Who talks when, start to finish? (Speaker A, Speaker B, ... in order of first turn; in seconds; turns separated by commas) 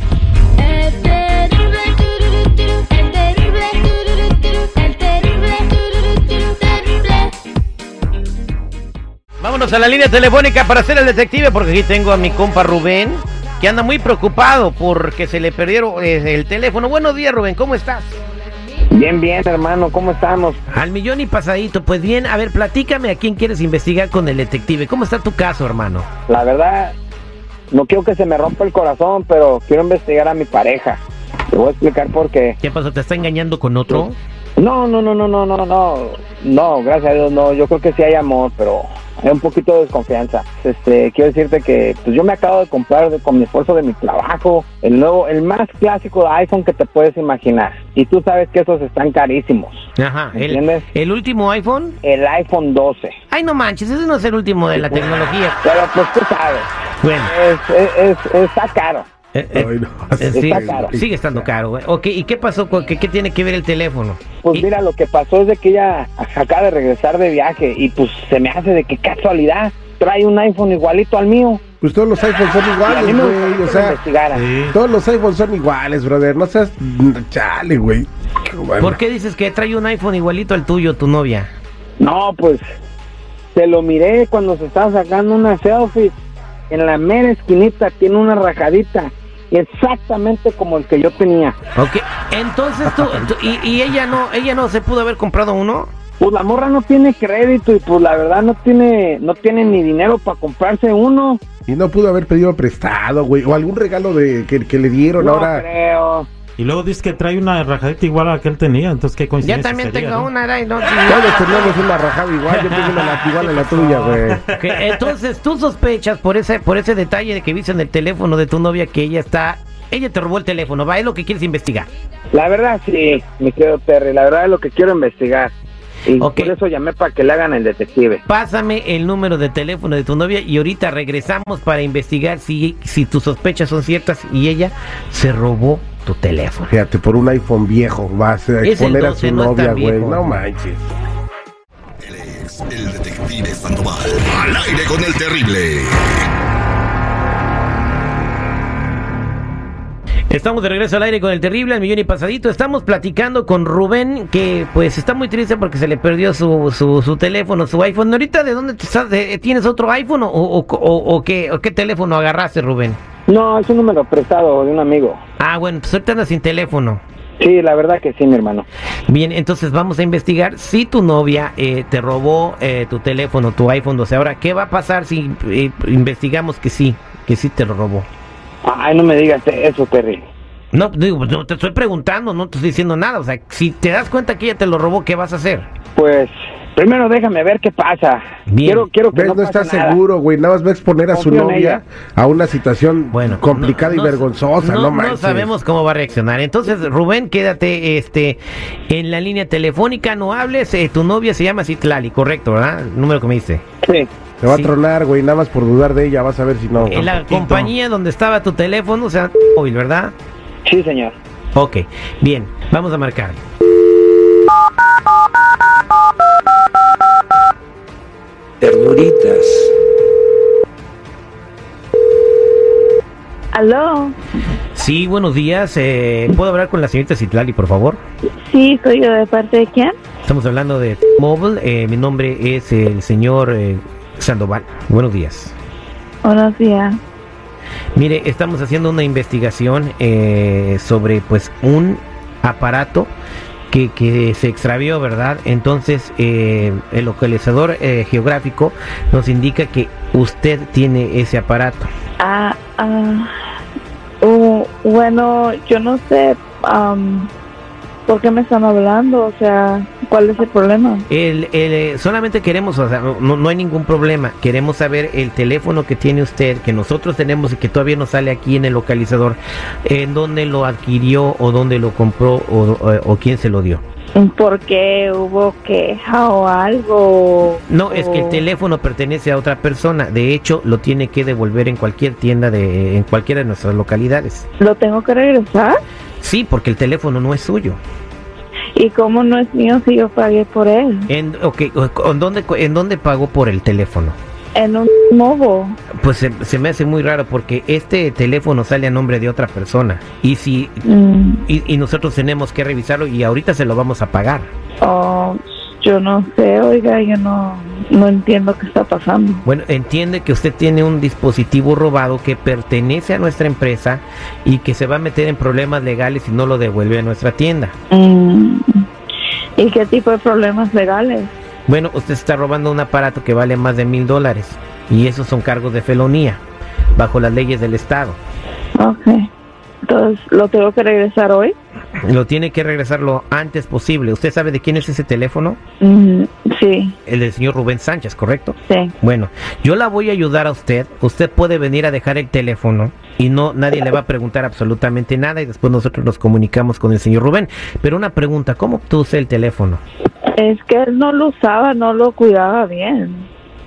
Speaker A: 0.6-7.4, Speaker B: 9.4-18.2, Speaker C: 18.9-20.6, Speaker B: 20.7-26.1, Speaker C: 26.3-26.9, Speaker C: 27.7-32.6, Speaker B: 32.6-34.2, Speaker C: 33.9-50.8, Speaker B: 50.0-52.0, Speaker C: 52.0-53.1, Speaker B: 53.3-55.6, Speaker C: 55.6-59.1, Speaker B: 57.0-57.3, Speaker B: 59.3-64.7, Speaker D: 59.5-61.5, Speaker C: 60.3-61.0, Speaker C: 64.4-71.6, Speaker D: 71.8-74.0, Speaker C: 72.9-74.4, Speaker A: 74.3-74.8, Speaker D: 74.7-79.0, Speaker B: 78.8-81.5, Speaker C: 82.0-82.6, Speaker C: 83.5-86.2, Speaker C: 86.7-91.5, Speaker B: 91.8-95.9, Speaker C: 96.2-101.4, Speaker D: 101.7-105.6, Speaker C: 105.2-106.3, Speaker A: 106.6-110.3, Speaker B: 109.4-111.8, Speaker D: 111.0-114.5, Speaker A: 112.6-115.1, Speaker B: 114.5-121.9, Speaker C: 122.3-125.5, Speaker C: 126.0-128.2, Speaker B: 126.2-126.5, Speaker B: 128.2-136.7, Speaker D: 136.7-140.8, Speaker B: 138.6-140.3, Speaker E: 142.0-146.2, Speaker B: 150.3-163.0, Speaker C: 163.3-165.2, Speaker B: 165.4-167.0, Speaker C: 167.4-168.7, Speaker B: 169.1-178.1, Speaker C: 178.6-180.2, Speaker B: 180.7-185.7, Speaker C: 185.9-190.0, Speaker B: 188.5-188.9, Speaker D: 189.1-195.5, Speaker C: 191.1-191.8, Speaker B: 193.1-203.6, Speaker C: 203.8-204.1, Speaker D: 204.4-207.7, Speaker B: 204.4-204.7, Speaker B: 206.8-210.1, Speaker C: 210.6-211.2, Speaker B: 211.6-213.4, Speaker F: 223.5-224.1, Speaker B: 224.8-228.0, Speaker F: 228.5-229.9, Speaker B: 230.2-235.6, Speaker F: 236.2-237.0, Speaker B: 237.9-243.1, Speaker B: 243.7-251.9, Speaker F: 252.2-253.3, Speaker F: 254.2-257.3, Speaker F: 258.1-261.1, Speaker B: 261.1-273.8, Speaker F: 274.1-278.4, Speaker B: 277.7-284.5, Speaker F: 284.6-285.8, Speaker B: 286.2-287.8, Speaker F: 288.8-291.1, Speaker B: 291.1-294.2, Speaker F: 294.6-295.8, Speaker B: 296.0-300.8, Speaker F: 300.9-301.4, Speaker B: 301.4-304.5, Speaker F: 304.8-309.4, Speaker B: 309.4-317.7, Speaker F: 317.9-318.7, Speaker F: 319.6-321.3, Speaker B: 321.7-326.4, Speaker B: 327.0-328.2, Speaker F: 328.8-329.3, Speaker F: 329.8-331.6, Speaker B: 332.0-335.6, Speaker F: 335.8-336.9, Speaker B: 337.1-349.8, Speaker F: 338.6-338.9, Speaker F: 350.4-353.3